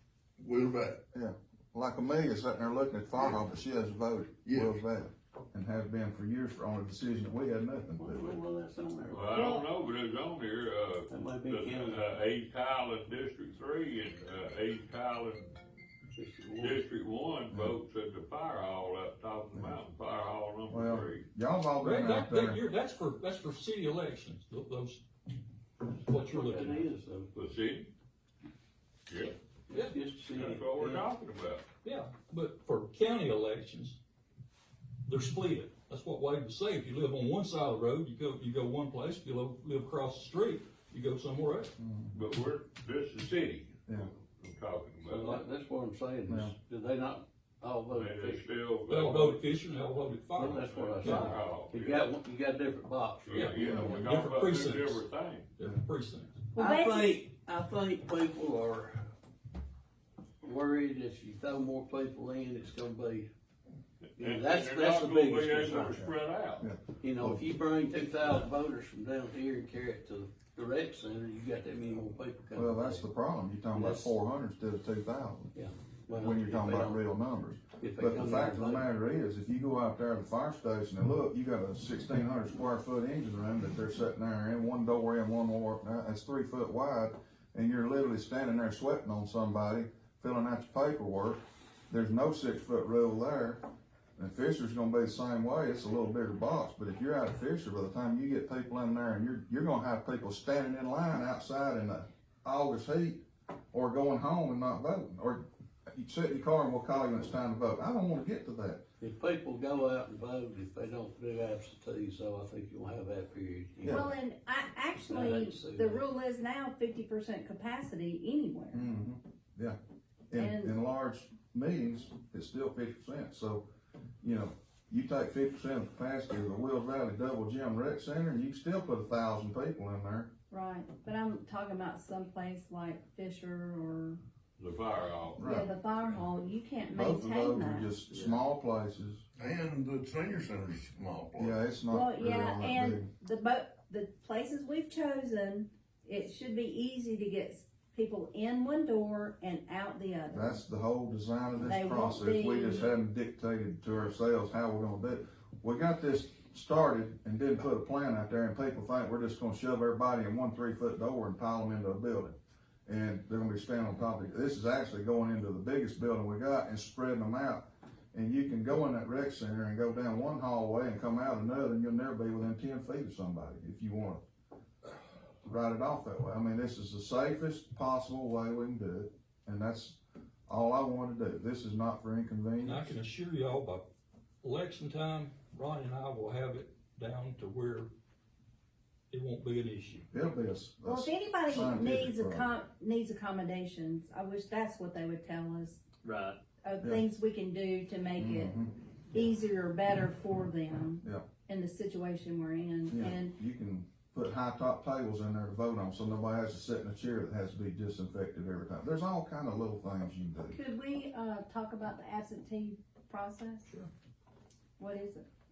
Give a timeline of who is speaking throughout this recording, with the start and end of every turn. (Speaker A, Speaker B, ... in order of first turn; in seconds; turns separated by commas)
Speaker A: 0.4-1.0, Speaker B: 1.1-8.3, Speaker A: 4.5-4.7, Speaker C: 7.8-9.6, Speaker D: 9.1-15.5, Speaker E: 9.3-9.6, Speaker C: 11.1-12.1, Speaker C: 16.1-16.8, Speaker D: 16.6-21.3, Speaker B: 17.5-17.8, Speaker B: 20.7-22.6, Speaker F: 21.8-25.0, Speaker F: 25.9-26.9, Speaker C: 26.2-27.3, Speaker D: 27.3-27.9, Speaker D: 29.1-29.4, Speaker C: 29.7-31.1, Speaker F: 29.7-30.0, Speaker D: 30.3-31.7, Speaker F: 31.8-34.0, Speaker F: 35.0-41.7, Speaker B: 41.8-42.1, Speaker D: 42.1-45.4, Speaker C: 45.0-48.5, Speaker B: 46.3-46.5, Speaker D: 47.9-49.4, Speaker F: 48.9-51.4, Speaker C: 50.3-54.0, Speaker D: 50.5-52.1, Speaker D: 53.3-55.5, Speaker F: 53.3-55.0, Speaker F: 55.6-56.4, Speaker E: 56.6-57.2, Speaker C: 56.6-59.1, Speaker C: 60.4-63.3, Speaker D: 64.2-66.7, Speaker C: 64.2-66.0, Speaker B: 65.9-67.4, Speaker C: 67.0-73.1, Speaker B: 72.5-75.5, Speaker C: 73.7-74.2, Speaker C: 75.5-77.0, Speaker B: 76.1-93.6, Speaker C: 77.8-78.9, Speaker B: 94.2-108.8, Speaker C: 109.0-114.0, Speaker B: 113.8-114.1, Speaker E: 113.8-118.9, Speaker C: 115.0-116.1, Speaker B: 118.7-119.8, Speaker B: 120.3-123.7, Speaker E: 120.3-120.7, Speaker B: 124.2-130.3, Speaker E: 130.5-134.2, Speaker D: 134.6-135.4, Speaker B: 135.4-135.7, Speaker E: 135.4-137.9, Speaker B: 136.9-139.2, Speaker A: 139.4-141.6, Speaker B: 141.4-143.1, Speaker E: 141.9-150.6, Speaker B: 150.3-174.2, Speaker E: 151.6-152.9, Speaker B: 175.4-182.9, Speaker F: 182.6-183.9, Speaker F: 184.4-187.9, Speaker F: 189.1-190.1, Speaker B: 190.1-192.5, Speaker E: 190.8-195.8, Speaker D: 196.1-196.3, Speaker E: 196.6-198.5, Speaker B: 198.2-198.7, Speaker E: 199.1-203.3, Speaker B: 202.9-210.6, Speaker E: 210.5-213.7, Speaker E: 214.8-215.3